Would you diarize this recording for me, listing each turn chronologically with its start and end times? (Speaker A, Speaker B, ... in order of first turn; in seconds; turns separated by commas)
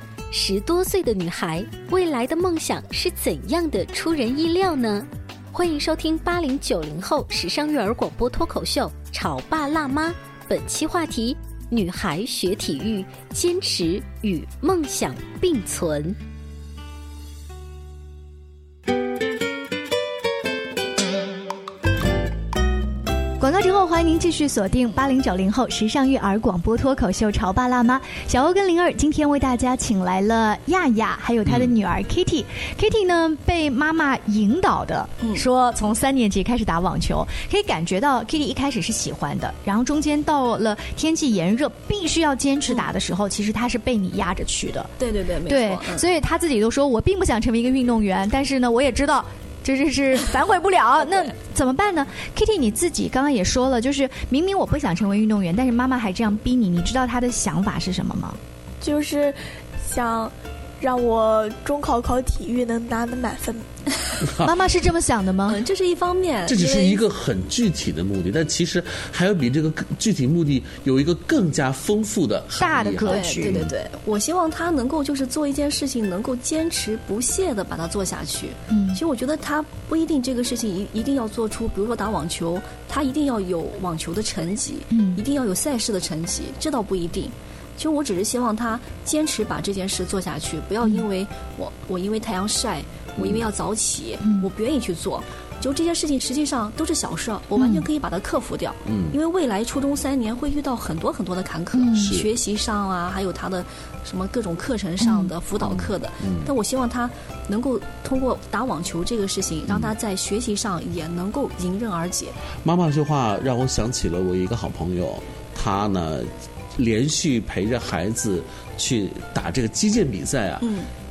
Speaker A: 0.3-16.2, Speaker B: 23.4-44.9, Speaker C: 31.4-31.7, Speaker D: 35.2-35.5, Speaker D: 45.0-46.0, Speaker B: 45.5-58.4, Speaker E: 58.8-63.7, Speaker C: 64.2-64.5, Speaker B: 64.4-65.6, Speaker D: 65.5-67.0, Speaker C: 66.5-73.7, Speaker B: 72.6-73.6, Speaker D: 73.0-112.3, Speaker B: 78.7-79.0, Speaker B: 84.9-85.2, Speaker C: 93.2-93.4, Speaker B: 94.2-94.5, Speaker B: 97.6-97.9, Speaker C: 98.8-99.2, Speaker B: 101.7-102.2, Speaker C: 101.9-102.3, Speaker B: 105.0-105.3, Speaker C: 105.6-106.5, Speaker C: 112.6-120.7, Speaker D: 120.6-120.9